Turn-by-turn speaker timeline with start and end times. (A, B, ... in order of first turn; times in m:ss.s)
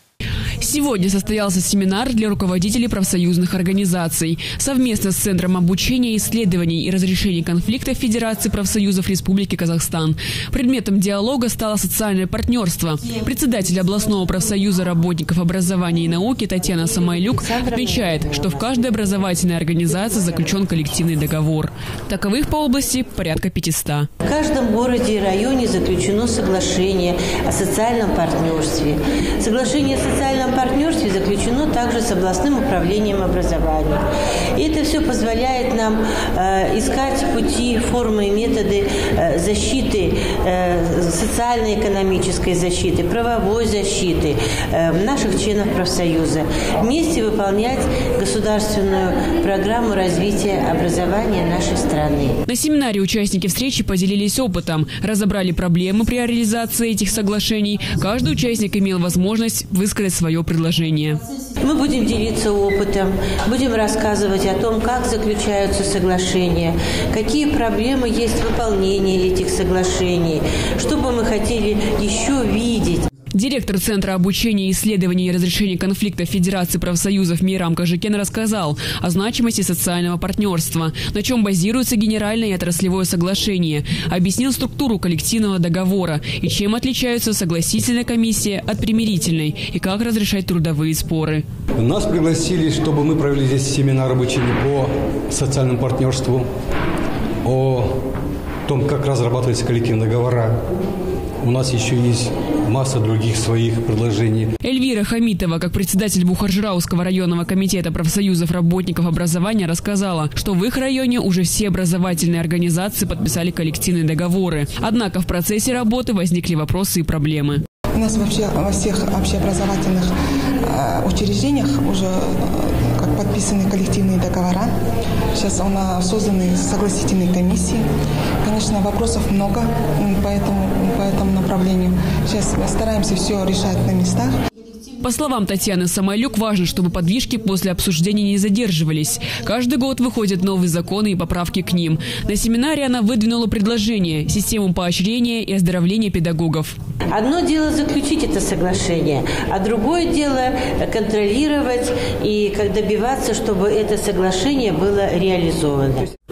0:00.6-0:24.1 A
0:17.4-0:18.6 B
0:24.2-0:34.0 B
0:34.5-0:52.4 B
0:52.5-1:01.2 A
1:01.6-1:13.1 B
1:13.3-1:31.4 A
1:31.8-1:36.5 C
1:37.4-1:38.0 C
1:38.6-1:40.6 C
1:41.4-1:44.5 C
1:44.6-1:57.6 A
1:57.9-2:00.1 D
2:00.6-2:04.7 D
2:05.3-2:07.8 D
2:08.4-2:14.3 D
2:15.0-2:26.8 A
2:27.1-2:36.1 B